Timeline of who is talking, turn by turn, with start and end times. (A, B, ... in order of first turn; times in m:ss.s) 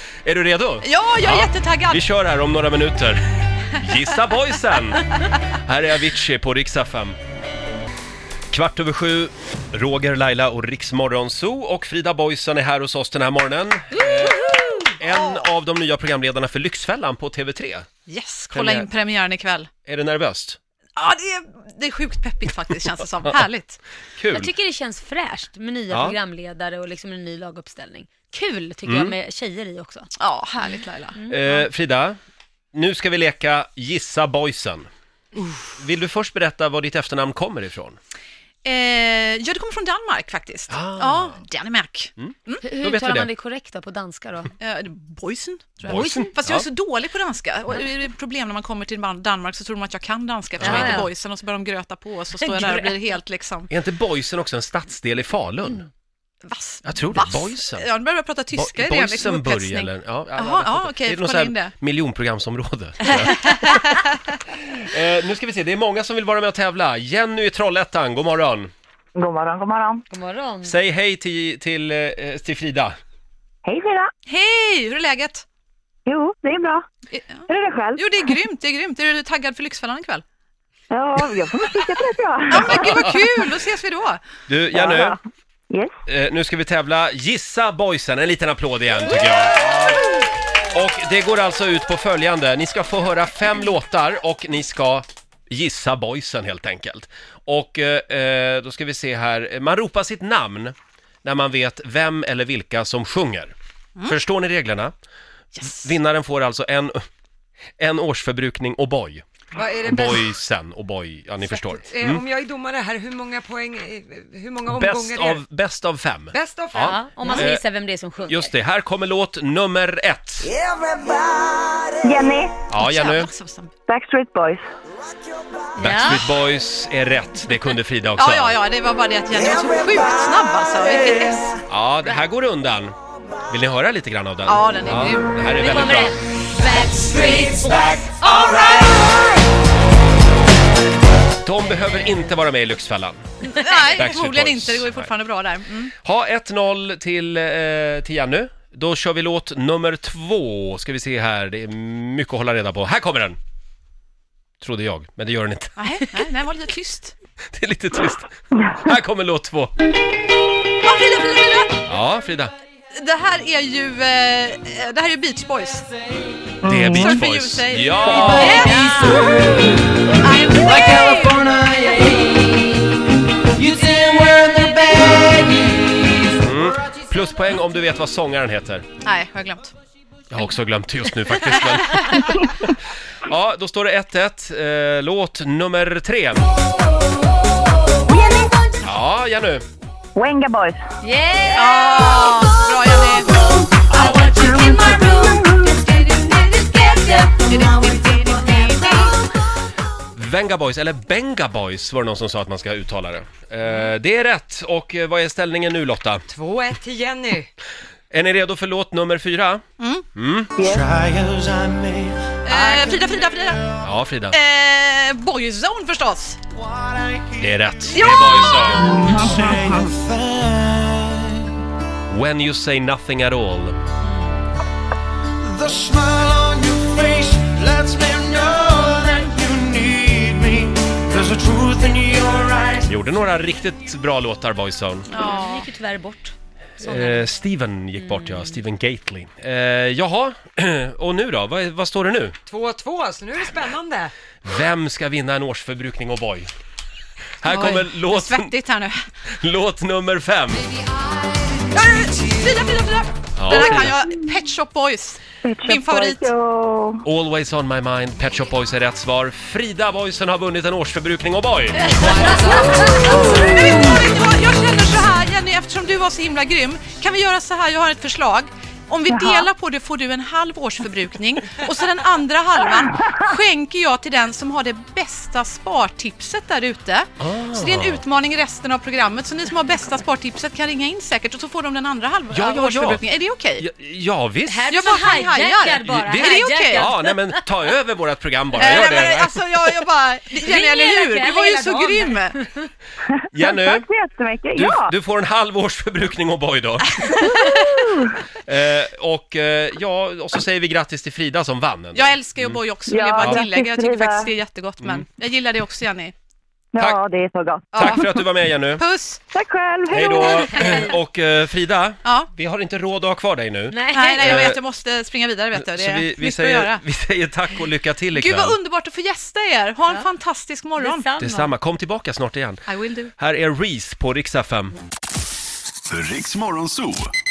0:00.2-0:07.2 A
0:00.8-0:02.0 B
0:08.5-0:17.9 A
0:14.0-0:15.4 B
0:18.1-0:19.7 B
0:18.5-0:18.9 A
0:19.8-0:20.6 A
0:21.0-0:23.8 B
0:24.2-0:24.5 A
0:24.3-0:30.1 C
0:25.9-0:26.2 A
0:28.9-0:29.1 A
0:30.2-0:31.2 B
0:31.1-0:31.6 C
0:31.3-0:32.2 A
0:32.7-0:34.9 A
0:35.6-0:38.0 A
0:38.6-0:42.6 B
0:40.7-0:41.4 A
0:42.2-0:43.3 A
0:42.6-0:44.5 C
0:44.6-0:53.7 B
0:45.8-0:46.6 A
0:45.8-0:46.4 C
0:50.6-0:51.1 C
0:50.6-0:51.1 A
0:52.4-0:53.0 C
0:53.7-0:55.9 A
0:56.4-1:01.7 B
0:56.8-0:57.9 A
0:58.5-1:03.9 A
1:03.1-1:04.1 B
1:04.6-1:08.7 A
1:09.2-1:10.0 D
1:10.1-1:10.7 C
1:10.6-1:13.0 A
1:13.6-1:14.1 D
1:14.3-1:15.4 B
1:16.1-1:16.8 D
1:17.1-1:20.2 B
1:17.5-1:18.1 D
1:20.9-1:23.0 D
1:22.5-1:24.2 B
1:24.5-1:25.2 A
1:24.7-1:25.2 D
1:26.1-1:30.1 A
1:30.7-1:43.5 A
1:44.1-1:44.9 A
1:45.5-1:45.9 B
1:45.6-1:47.0 A
1:47.8-1:49.2 A
1:49.5-1:50.3 E
1:49.8-1:52.2 A
1:51.4-1:55.4 E
1:54.7-1:57.6 A
1:56.3-1:57.4 E
1:56.8-1:58.5 C
1:58.3-2:00.5 A
2:02.0-2:02.6 D
2:02.7-2:03.3 A
2:02.8-2:03.7 B
2:03.9-2:04.6 D
2:05.8-2:08.6 A
2:05.8-2:06.3 C
2:08.2-2:11.6 B
2:11.7-2:12.9 A
2:13.5-2:16.1 A
2:14.4-2:15.3 B
2:15.6-2:18.0 C
2:18.2-2:19.2 B
2:21.4-2:23.2 A
2:23.4-2:25.9 B
2:23.9-2:25.1 A
2:26.0-2:33.4 A
2:34.6-2:35.8 A
2:35.8-2:37.1 B
2:37.5-2:39.7 A
2:40.8-2:41.8 B
2:41.9-2:42.5 A
2:42.9-2:45.8 B
2:46.6-2:48.7 A
2:46.8-2:49.2 B
2:48.1-2:49.4 C
2:48.7-2:49.9 F
2:50.2-2:51.4 B
2:50.6-2:52.8 F
2:53.5-2:56.3 F
2:56.4-2:58.9 A
2:59.0-2:59.7 B
3:00.3-3:06.4 A
3:01.5-3:02.2 B
3:08.0-3:08.8 D
3:08.8-3:09.6 A
3:10.1-3:10.8 D
3:11.0-3:12.3 C
3:11.5-3:19.1 B
3:13.9-3:19.0 C
3:14.3-3:14.8 D
3:20.1-3:26.2 A
3:26.3-3:27.5 E
3:28.1-3:29.6 A
3:29.8-3:30.0 B
3:30.1-3:30.5 A
3:30.6-3:30.9 D
3:30.6-3:32.9 F
3:32.5-3:33.6 B
3:33.8-3:34.4 A
3:34.3-3:36.4 B
3:36.6-3:41.5 F
3:37.4-3:39.1 A
3:37.9-3:38.8 B
3:42.1-3:43.8 A
3:44.0-3:44.4 C
3:45.4-3:52.9 F
3:52.8-3:55.1 A
3:55.1-3:55.7 B
3:55.1-3:57.3 C
3:56.8-4:02.4 A
3:58.0-3:58.6 C
4:02.5-4:04.1 E
4:04.4-4:06.5 A
4:07.4-4:08.5 A
4:07.5-4:09.0 B
4:09.3-4:10.7 A
4:11.7-4:16.3 B
4:13.4-4:14.0 A
4:15.4-4:17.0 D
4:17.0-4:22.6 A
4:22.0-4:23.4 E
4:22.0-4:23.4 C
4:22.2-4:43.6 B
4:37.2-4:38.0 A
4:42.3-4:43.0 A
4:43.6-4:44.7 A
4:44.4-4:47.4 C
4:44.7-4:46.9 B
4:45.8-4:49.4 A
4:48.6-4:52.4 B
4:48.6-4:48.9 C
4:50.4-4:52.7 C
4:53.1-4:54.9 D
4:53.3-4:53.8 A
4:54.5-4:57.4 A
4:57.1-4:57.9 B
4:57.5-4:58.1 D
4:58.4-5:02.6 A
5:01.9-5:06.1 B
5:02.9-5:04.3 D
5:06.7-5:08.0 D
5:07.7-5:08.2 B
5:07.8-5:08.8 A
5:08.8-5:09.2 B
5:09.3-5:10.6 D
5:09.9-5:14.6 A
5:12.0-5:12.3 B
5:13.7-5:14.6 C
5:13.9-5:16.8 B
5:15.5-5:18.6 A
5:18.1-5:21.0 B
5:20.8-5:21.5 C
5:21.2-5:24.8 A
5:22.7-5:23.1 B
5:26.2-5:26.7 F